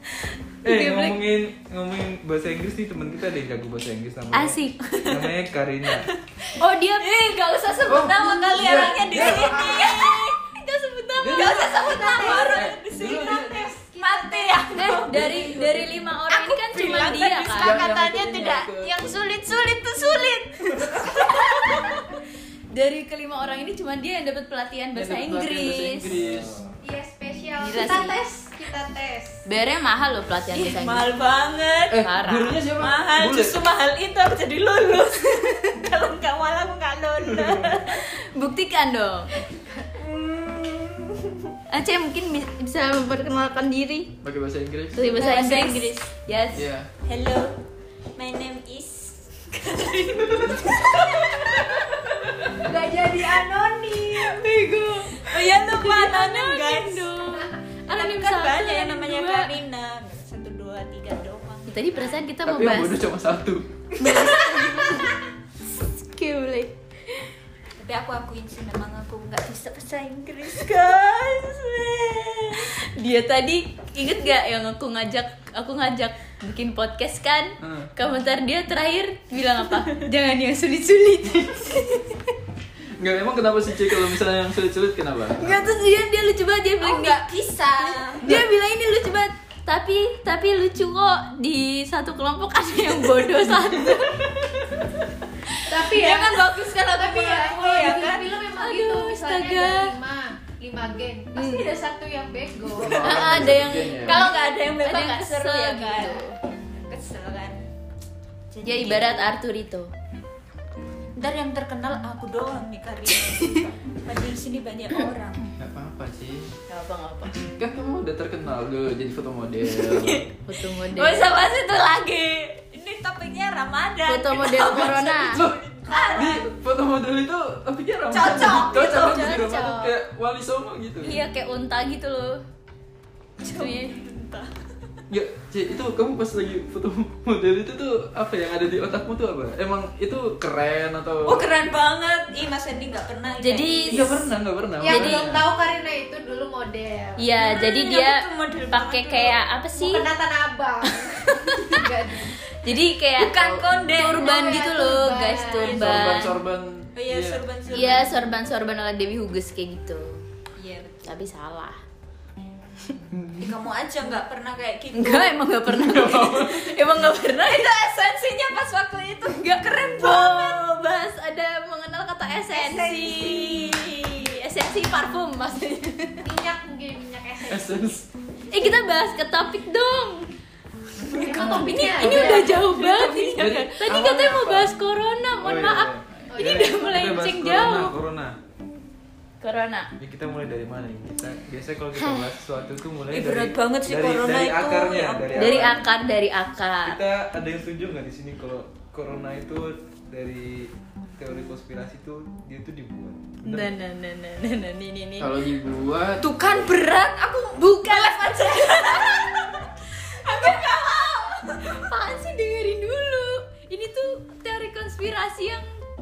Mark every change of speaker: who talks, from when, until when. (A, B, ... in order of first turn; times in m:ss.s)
0:00.6-0:01.2 A
0:00.6-0:06.1 B
0:04.3-0:04.8 A
0:04.9-0:05.3 C
0:05.9-0:10.4 C
0:06.6-0:07.2 A
0:07.8-0:10.0 D
0:08.0-0:12.1 A
0:11.2-0:13.7 D
0:11.2-0:22.0 C
0:11.7-0:14.8 E
0:14.7-0:17.8 A
0:17.5-0:19.0 D
0:21.1-0:21.7 A
0:22.7-0:26.1 A
0:24.9-0:26.6 D
0:26.1-0:26.8 B
0:26.8-0:29.4 E
0:27.6-0:28.1 A
0:29.4-0:31.1 A
0:30.5-0:32.0 C
0:31.9-0:33.6 D
0:32.0-0:32.6 A
0:32.8-0:38.0 C
0:37.4-0:37.8 B
0:37.9-0:39.4 A
0:40.0-0:41.4 C
0:41.7-0:44.2 A
0:44.2-0:45.1 D
0:44.9-0:46.7 A
0:45.1-0:46.0 C
0:46.5-0:46.9 D
0:47.0-0:47.6 C
0:48.2-0:53.4 C
0:52.5-0:54.4 E
0:54.3-0:59.5 A
0:55.1-1:02.2 C
1:01.7-1:03.0 A
1:02.4-1:03.7 D
1:03.9-1:05.0 C
1:04.0-1:05.1 A
1:05.7-1:07.2 A
1:07.8-1:12.7 C
1:12.6-1:21.9 A
1:17.6-1:17.9 D
1:23.0-1:25.6 D
1:25.4-1:27.2 A
1:26.8-1:28.2 C
1:27.8-1:34.2 A
1:28.2-1:28.5 D
1:34.2-1:34.9 C
1:35.7-1:43.4 E
1:35.7-1:38.3 C
1:38.5-1:40.0 A
1:41.4-1:41.7 A
1:42.7-1:44.2 D
1:42.8-1:43.2 C
1:42.9-1:46.4 A
1:43.7-1:46.3 C
1:46.9-1:47.6 C
1:48.5-1:49.2 C
1:48.6-1:49.9 A
1:51.2-1:55.4 C
1:55.6-1:56.5 D
1:56.7-1:57.4 A
1:57.5-2:00.3 D
1:59.6-2:00.3 C
2:00.5-2:01.3 A
2:00.8-2:06.4 C
2:04.1-2:05.4 A
2:04.7-2:05.6 D
2:06.1-2:11.2 D
2:08.1-2:09.6 C
2:08.3-2:09.7 A
2:08.6-2:09.7 E
2:11.0-2:12.4 A
2:13.4-2:14.5 C
2:13.5-2:13.9 A
2:15.1-2:21.5 D
2:21.2-2:24.3 C
2:23.4-2:24.2 A
2:23.9-2:25.4 D
2:24.8-2:27.2 E
2:24.8-2:25.4 A
2:27.2-2:30.1 A
2:27.4-2:29.4 C
2:29.7-2:32.4 E
2:31.0-2:31.8 A
2:32.6-2:36.3 A
2:33.2-2:34.3 C
2:34.2-2:35.7 E
2:35.6-2:36.1 C
2:35.6-2:37.4 D
2:37.0-2:38.1 C
2:37.7-2:40.2 A
2:40.6-2:41.1 C
2:41.0-2:41.8 A
2:43.1-2:43.5 D
2:43.4-2:45.4 C
2:44.9-2:47.8 A
2:45.6-2:46.8 D
2:47.4-2:50.7 C
2:49.4-2:56.3 A
2:52.5-2:54.3 C
2:56.2-2:58.0 E
2:57.5-2:58.0 D
2:58.5-3:00.2 A
3:01.0-3:03.7 C
3:01.1-3:02.6 E
3:01.3-3:02.3 D
3:01.3-3:07.9 A
3:03.8-3:04.7 D
3:05.4-3:08.4 B
3:06.3-3:07.0 E
3:09.4-3:09.9 A
3:10.0-3:15.9 B
3:13.1-3:15.7 C
3:15.3-3:17.0 A
3:16.8-3:23.7 B
3:23.4-3:25.3 A
3:25.2-3:26.2 D
3:26.2-3:31.8 C
3:27.6-3:29.0 A
3:31.6-3:35.7 A